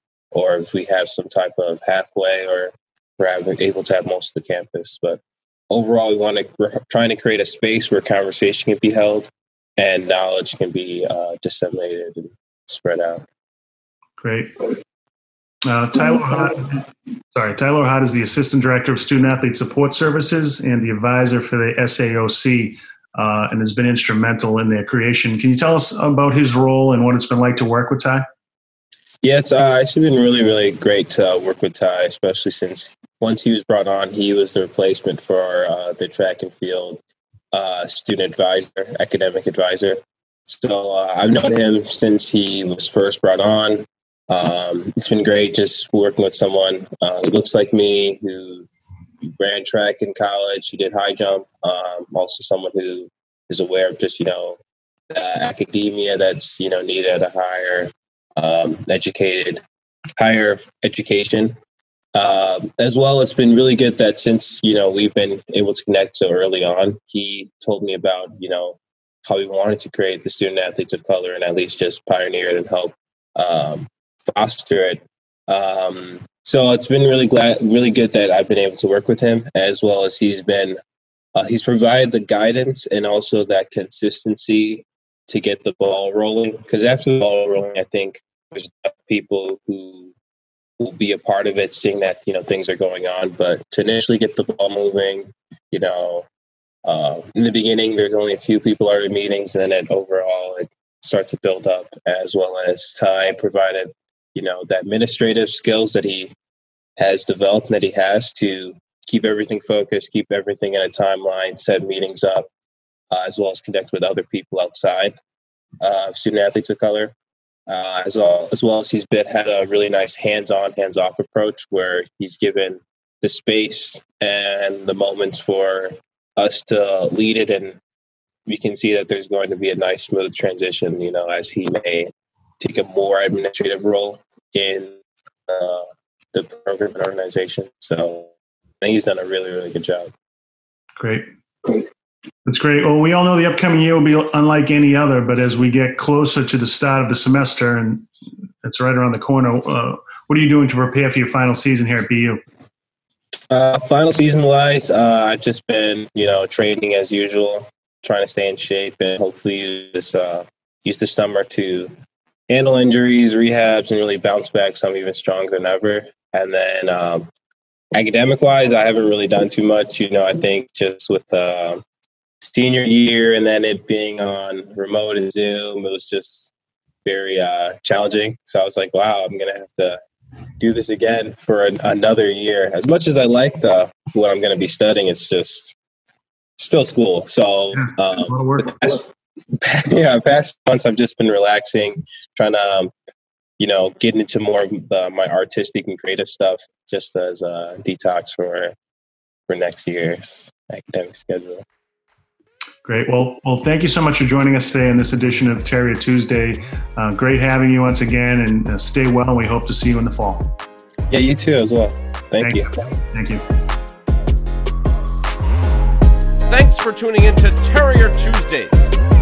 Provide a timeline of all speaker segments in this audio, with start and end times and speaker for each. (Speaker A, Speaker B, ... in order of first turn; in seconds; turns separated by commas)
Speaker A: 0.3-13.2, Speaker B: 14.2-14.7, Speaker B: 15.7-28.2, Speaker A: 29.2-37.0, Speaker A: 37.5-48.7, Speaker A: 49.3-59.6, Speaker A: 60.2-61.5, Speaker A: 62.1-80.8, Speaker A: 81.3-90.1, Speaker A: 90.8-96.3, Speaker A: 96.8-106.3, Speaker A: 107.0-112.5, Speaker A: 113.1-115.1, Speaker A: 115.8-117.1, Speaker A: 117.7-127.8, Speaker A: 128.4-132.1, Speaker A: 132.6-140.1, Speaker B: 141.0-141.7, Speaker B: 142.4-148.1, Speaker B: 148.6-152.4, Speaker A: 153.5-161.9, Speaker A: 162.5-167.3, Speaker A: 167.9-171.8, Speaker A: 172.4-176.5, Speaker A: 177.0-180.0, Speaker A: 180.6-185.7, Speaker A: 186.6-192.9, Speaker B: 187.7-188.8, Speaker A: 193.6-198.7, Speaker A: 199.5-201.6, Speaker B: 202.8-210.4, Speaker A: 211.1-212.8, Speaker B: 212.4-213.4, Speaker C: 216.5-218.9